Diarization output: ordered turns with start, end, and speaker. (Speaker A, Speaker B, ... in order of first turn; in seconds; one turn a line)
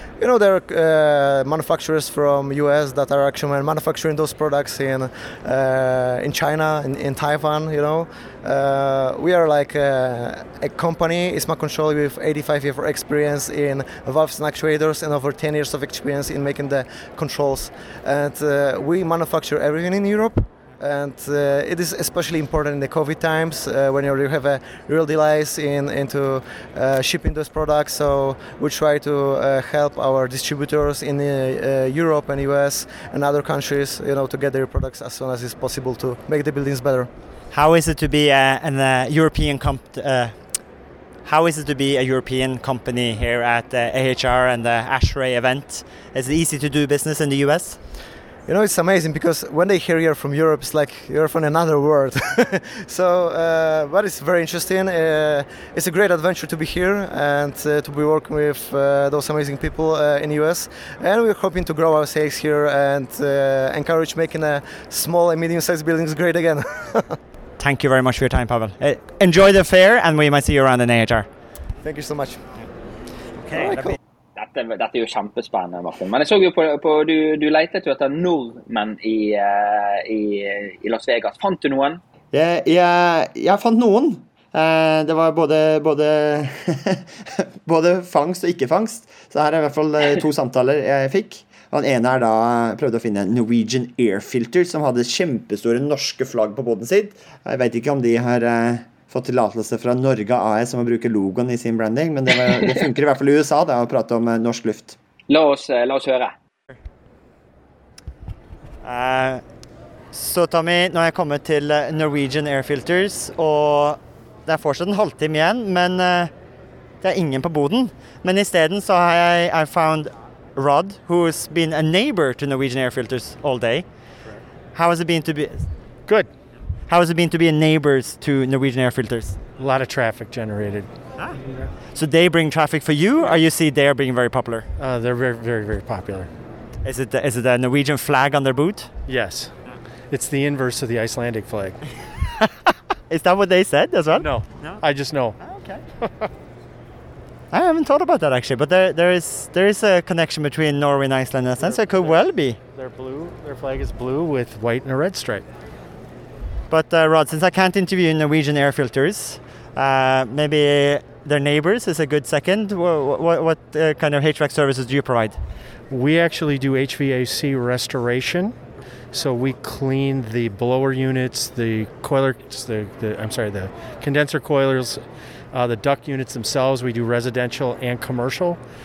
Speaker A: 0.2-37.1
Speaker B: 37.5-40.4
Speaker B: 41.2-47.8
Speaker A: 48.5-67.2
Speaker B: 67.6-71.3
Speaker A: 71.8-72.4
Speaker B: 73.4-74.0
Speaker A: 73.5-74.0
Speaker C: 74.4-82.0
Speaker D: 82.3-105.0
Speaker C: 105.3-106.3
Speaker B: 108.8-109.4
Speaker B: 110.1-116.3
Speaker B: 117.0-123.9
Speaker B: 124.8-125.7
Speaker B: 126.9-129.4
Speaker E: 129.6-130.9
Speaker B: 131.9-134.7
Speaker E: 134.8-136.3
Speaker B: 136.8-138.9
Speaker E: 139.1-139.6
Speaker E: 140.1-141.8
Speaker B: 142.4-144.8
Speaker E: 144.2-145.4
Speaker B: 145.4-145.8
Speaker B: 147.5-152.6
Speaker E: 151.6-152.2
Speaker E: 152.7-155.4
Speaker B: 156.7-165.4
Speaker E: 165.9-168.6
Speaker E: 169.1-175.0
Speaker E: 175.5-178.6